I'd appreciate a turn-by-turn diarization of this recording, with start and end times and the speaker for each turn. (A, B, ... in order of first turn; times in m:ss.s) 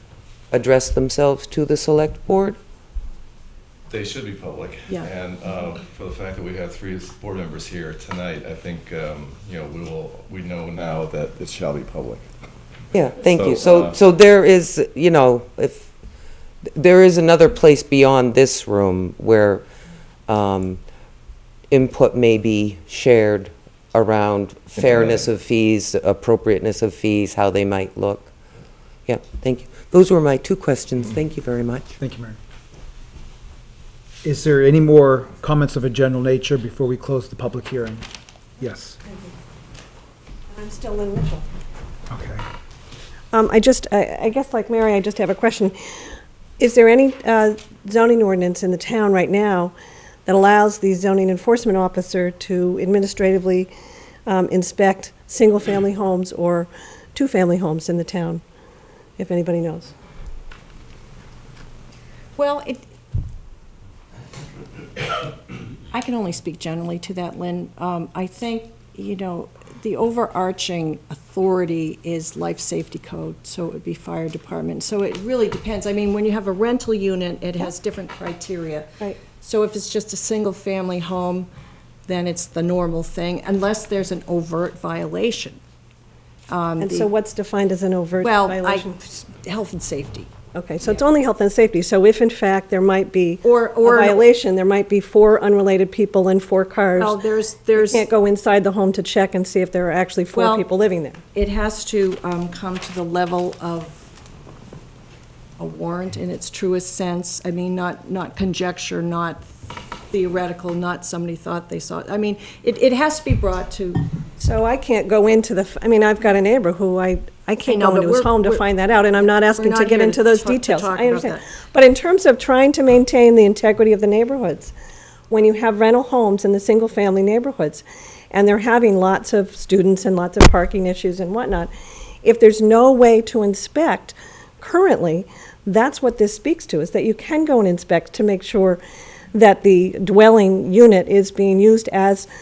0:00.5-0:02.6 A
0:03.9-0:12.2 B
0:12.9-0:15.9 A
0:13.2-0:14.0 B
0:16.6-0:19.6 A
0:20.3-0:20.8 A
0:21.7-0:28.3 A
0:24.8-0:25.2 B
0:29.0-0:31.9 A
0:32.0-0:32.4 C
0:34.2-0:38.0 C
0:38.6-0:39.0 C
0:40.5-0:41.4 D
0:42.1-0:42.4 C
0:43.3-0:45.7 D
0:46.6-0:49.7 D
0:50.2-0:53.7 D
0:54.2-0:58.4 D
0:59.2-0:59.9 D
1:02.4-1:02.8 E
1:05.9-1:21.5 E
1:22.0-1:25.6 E
1:26.5-1:27.1 E
1:26.8-1:28.9 D
1:28.2-1:30.3 E
1:30.5-1:37.2 D
1:33.4-1:34.3 E
1:37.0-1:38.1 E
1:37.8-1:41.2 D
1:40.3-1:40.6 E
1:41.3-1:44.0 E
1:45.6-1:54.1 E
1:54.4-2:04.7 D
1:57.6-1:58.6 E
1:59.2-2:01.4 E
2:05.3-2:11.7 D
2:12.2-2:18.8 D
2:19.3-2:22.3 D